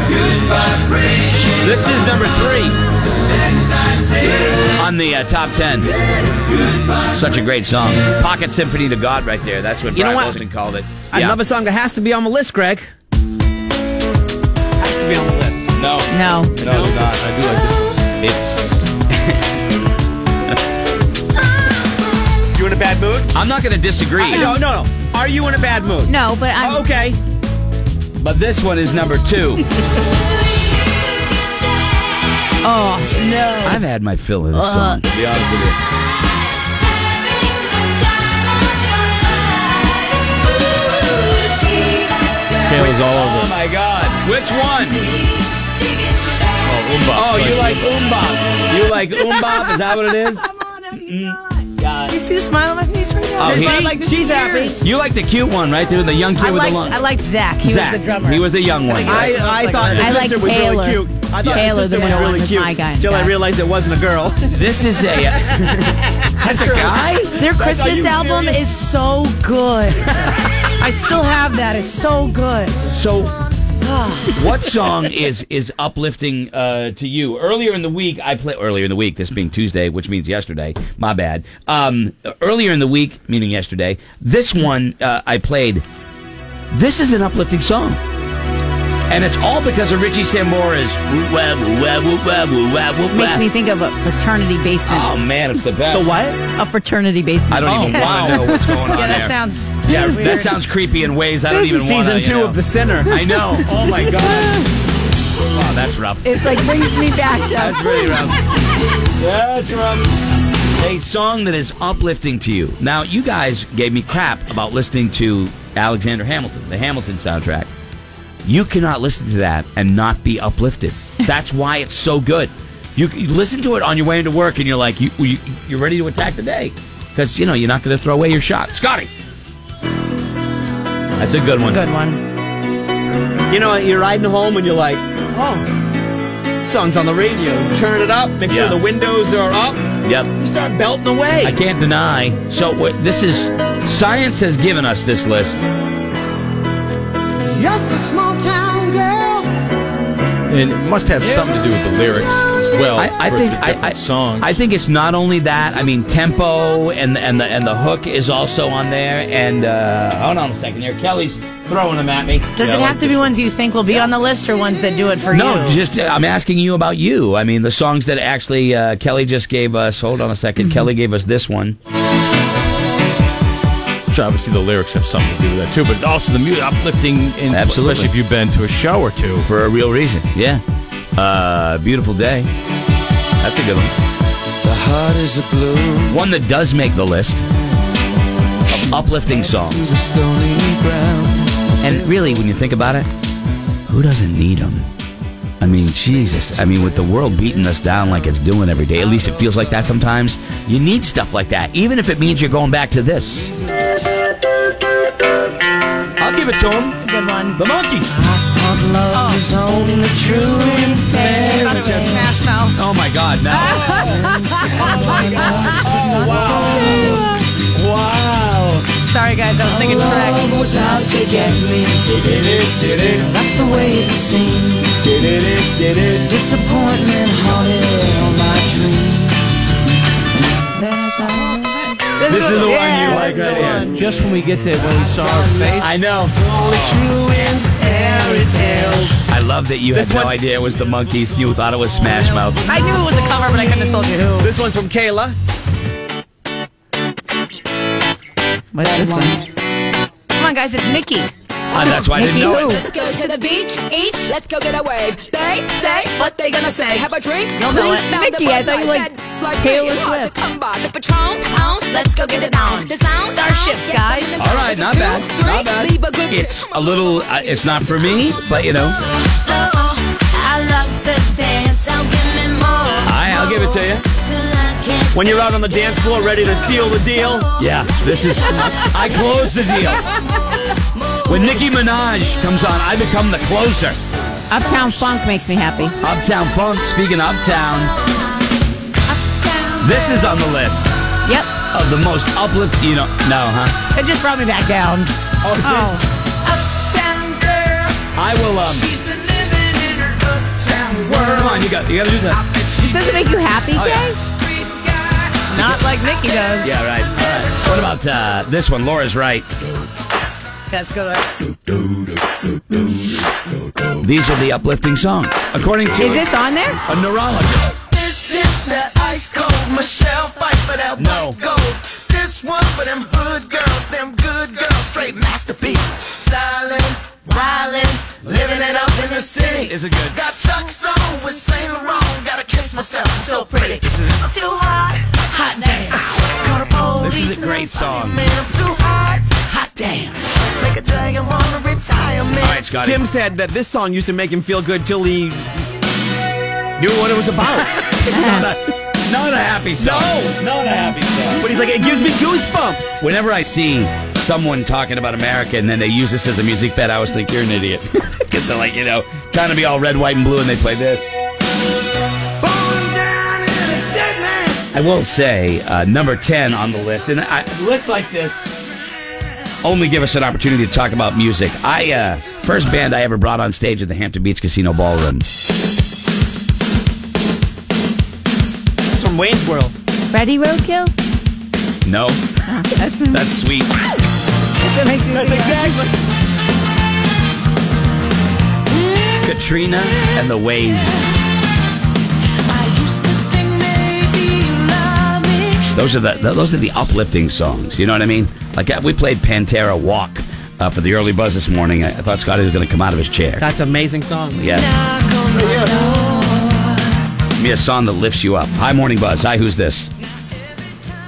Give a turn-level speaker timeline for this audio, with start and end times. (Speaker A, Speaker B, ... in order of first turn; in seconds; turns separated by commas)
Speaker A: 1.6-2.8, Speaker A: 4.7-5.9, Speaker A: 6.9-11.4, Speaker B: 9.9-10.4, Speaker B: 11.1-12.9, Speaker B: 14.8-15.7, Speaker A: 15.8-17.3, Speaker C: 16.1-16.6, Speaker B: 16.6-17.0, Speaker D: 16.7-18.0, Speaker A: 18.2-19.6, Speaker B: 22.5-23.3, Speaker A: 23.3-24.6, Speaker B: 24.2-27.2, Speaker C: 24.2-24.6, Speaker C: 26.1-26.9, Speaker A: 28.2-29.7, Speaker C: 32.6-33.9, Speaker A: 33.6-35.8, Speaker C: 34.5-35.0, Speaker D: 42.7-43.5, Speaker A: 42.7-45.0, Speaker D: 46.7-48.0, Speaker A: 47.1-52.2, Speaker E: 52.1-54.8, Speaker A: 53.4-53.9, Speaker B: 53.4-54.8, Speaker A: 54.8-57.0, Speaker E: 56.4-60.0, Speaker A: 57.6-60.2, Speaker B: 59.0-64.5, Speaker C: 59.9-63.4, Speaker E: 61.9-62.3, Speaker A: 64.5-67.5, Speaker B: 65.5-68.7, Speaker E: 67.2-72.8, Speaker A: 72.9-73.4, Speaker E: 73.8-74.5, Speaker A: 74.3-85.8, Speaker A: 86.7-88.0, Speaker A: 89.1-93.5, Speaker C: 93.0-95.1, Speaker A: 94.9-96.1, Speaker B: 95.9-96.4, Speaker C: 96.5-98.2, Speaker A: 97.5-104.6, Speaker B: 97.6-98.5, Speaker E: 97.8-100.5, Speaker B: 101.5-103.1, Speaker A: 105.5-106.6, Speaker C: 106.2-108.2, Speaker A: 107.5-108.4, Speaker A: 109.2-110.1, Speaker A: 110.8-117.7, Speaker A: 118.4-129.1, Speaker A: 131.2-131.8, Speaker E: 131.7-132.2, Speaker B: 133.5-135.6, Speaker B: 136.6-141.6, Speaker A: 138.5-138.8, Speaker A: 140.0-140.3, Speaker A: 141.4-145.6, Speaker B: 147.5-149.5, Speaker D: 150.5-154.6, Speaker A: 152.9-163.4, Speaker E: 162.6-165.8, Speaker A: 165.3-171.8, Speaker D: 174.1-179.5, Speaker A: 177.5-178.1, Speaker A: 179.4-180.6, Speaker A: 181.2-182.5, Speaker A: 183.4-183.9, Speaker D: 184.6-186.1, Speaker A: 186.1-187.4, Speaker A: 188.7-189.9, Speaker D: 189.2-192.2, Speaker A: 191.8-193.1, Speaker A: 193.9-194.9, Speaker A: 195.6-203.6, Speaker D: 196.1-196.6, Speaker A: 206.2-207.0, Speaker C: 207.1-207.5, Speaker E: 207.1-207.5, Speaker A: 207.6-208.2, Speaker E: 208.2-209.6, Speaker A: 209.4-218.9, Speaker E: 210.2-210.8, Speaker C: 211.0-212.3, Speaker E: 211.3-212.8, Speaker E: 213.5-217.2, Speaker E: 218.9-221.7, Speaker A: 219.6-223.1, Speaker E: 223.1-224.9, Speaker A: 225.0-229.0, Speaker E: 226.4-229.2, Speaker C: 230.8-231.7, Speaker E: 232.2-234.0, Speaker A: 232.2-234.0, Speaker B: 233.3-233.7, Speaker D: 233.9-235.9, Speaker A: 235.8-236.4, Speaker F: 236.6-237.4, Speaker D: 236.7-237.1, Speaker B: 237.1-239.3, Speaker A: 239.2-242.8, Speaker B: 239.9-240.3, Speaker E: 242.6-244.5, Speaker B: 244.4-245.4, Speaker C: 248.7-249.4, Speaker E: 248.8-249.4, Speaker E: 250.4-251.3, Speaker A: 251.7-252.8, Speaker G: 251.7-266.8, Speaker C: 251.8-252.8, Speaker E: 256.2-257.1, Speaker E: 257.6-258.2, Speaker C: 258.1-260.3, Speaker E: 261.8-264.5, Speaker A: 264.4-269.0, Speaker E: 269.6-273.1, Speaker A: 273.0-274.1, Speaker E: 274.4-275.0, Speaker B: 275.1-277.5, Speaker A: 277.6-280.1, Speaker A: 281.2-284.0, Speaker C: 284.5-286.0, Speaker A: 286.0-287.9, Speaker E: 289.2-290.0, Speaker A: 289.8-290.9, Speaker C: 291.2-291.5, Speaker A: 291.7-293.8, Speaker E: 293.9-295.1, Speaker A: 295.4-295.9, Speaker C: 295.6-296.0, Speaker E: 296.5-298.0, Speaker A: 298.1-298.9, Speaker E: 298.9-301.2, Speaker A: 300.9-302.4, Speaker C: 302.8-304.2, Speaker A: 303.7-304.1, Speaker E: 305.4-306.9, Speaker A: 306.6-309.7, Speaker E: 310.7-311.3, Speaker A: 314.0-316.3, Speaker C: 316.0-316.8, Speaker A: 316.9-317.8, Speaker F: 317.9-333.7, Speaker A: 320.9-321.4, Speaker E: 327.5-328.8, Speaker A: 329.5-330.2, Speaker E: 333.5-335.2, Speaker B: 333.8-334.2, Speaker E: 336.4-338.0, Speaker A: 336.9-338.3, Speaker F: 338.4-339.3, Speaker A: 339.8-340.1, Speaker F: 340.5-342.6, Speaker A: 342.4-343.0, Speaker B: 342.7-345.6, Speaker B: 346.8-347.9, Speaker A: 348.0-351.5, Speaker B: 349.8-350.4, Speaker B: 351.4-353.0, Speaker A: 353.0-361.1, Speaker B: 362.4-364.7, Speaker A: 364.7-368.6, Speaker A: 369.6-375.3, Speaker B: 378.9-379.7, Speaker C: 380.1-380.9, Speaker A: 381.9-382.2, Speaker C: 382.5-383.4, Speaker A: 383.1-383.8, Speaker C: 384.6-385.8, Speaker B: 385.1-385.9, Speaker A: 389.2-391.1, Speaker E: 392.5-395.7, Speaker A: 395.7-403.5, Speaker B: 403.4-404.4, Speaker A: 404.4-404.7, Speaker E: 404.6-406.8, Speaker B: 405.4-405.8, Speaker A: 407.4-409.9